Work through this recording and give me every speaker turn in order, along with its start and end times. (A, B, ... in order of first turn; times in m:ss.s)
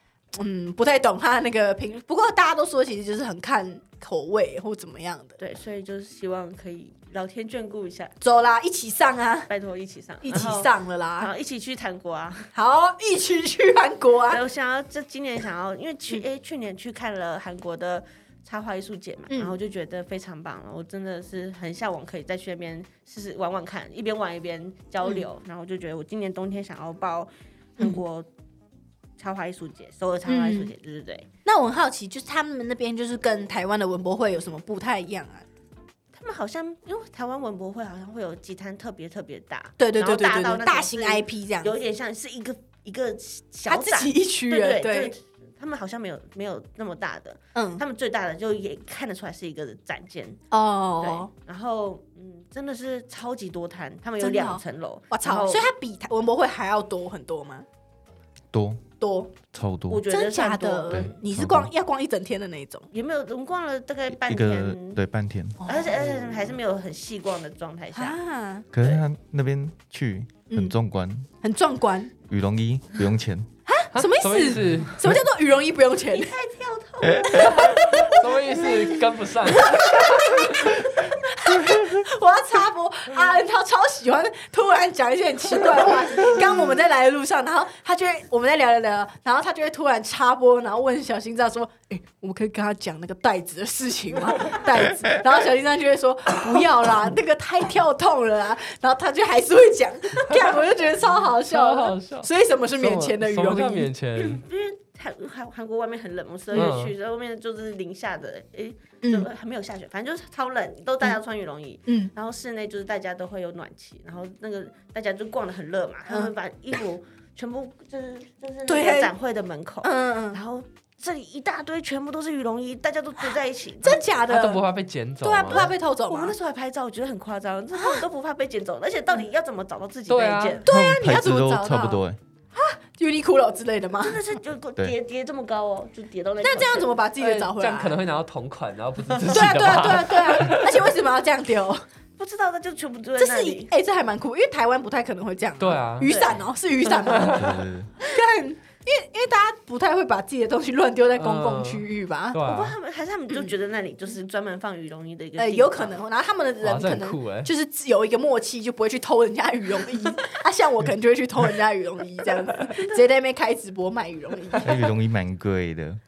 0:00.3-0:05.4 A
0:05.4-0:08.1 B
0:08.2-0:09.5 A
0:09.5-0:12.5 B
0:10.2-0:11.3 A
0:12.5-0:14.4 A
0:14.3-0:28.3 B
0:19.3-0:19.5 A
0:29.2-0:31.3 B
0:30.2-0:30.7 A
0:31.4-0:35.4 A
0:36.1-0:50.4 B
0:39.8-0:41.7 A
0:43.7-0:45.1 A
0:47.5-0:47.8 A
0:50.5-0:51.3 A
0:51.0-0:55.6 B
0:54.2-0:57.6 A
0:58.5-0:58.8 C
0:59.0-0:59.3 A
0:59.5-1:00.0 C
0:59.9-1:01.1 B
1:00.1-1:02.9 A
1:00.9-1:01.7 C
1:02.9-1:05.0 B
1:04.1-1:05.6 C
1:05.6-1:05.9 A
1:05.6-1:08.2 B
1:07.9-1:08.7 A
1:08.7-1:11.3 C
1:11.4-1:12.1 A
1:12.3-1:13.5 C
1:13.7-1:16.3 A
1:13.9-1:15.0 D
1:16.1-1:18.9 B
1:17.4-1:18.2 A
1:17.6-1:20.4 D
1:19.5-1:43.9 A
1:41.5-1:44.4 D
1:44.2-2:04.1 B
1:46.5-1:46.8 A
1:46.5-1:46.9 D
1:49.0-1:49.3 A
1:51.8-1:52.1 A
1:56.1-1:56.3 A
1:58.7-1:59.1 A
1:59.8-2:00.4 A
2:03.8-2:04.7 A
2:04.3-2:05.7 D
2:05.2-2:06.3 A
2:05.5-2:10.7 B
2:07.7-2:08.0 A
2:10.1-2:10.6 D
2:10.6-2:12.0 A
2:10.7-2:12.2 C
2:12.5-2:14.2 A
2:14.0-2:16.9 B
2:16.4-2:18.0 A
2:17.2-2:20.8 D
2:19.3-2:21.8 A
2:22.2-2:23.7 B
2:23.2-2:32.4 A
2:25.6-2:26.2 D
2:26.0-2:26.4 B
2:27.0-2:27.6 D
2:27.2-2:27.9 C
2:31.2-2:32.8 D
2:32.4-2:36.0 B
2:35.4-2:44.7 A
2:36.6-2:37.5 D
2:42.6-2:43.1 B
2:44.6-2:46.0 C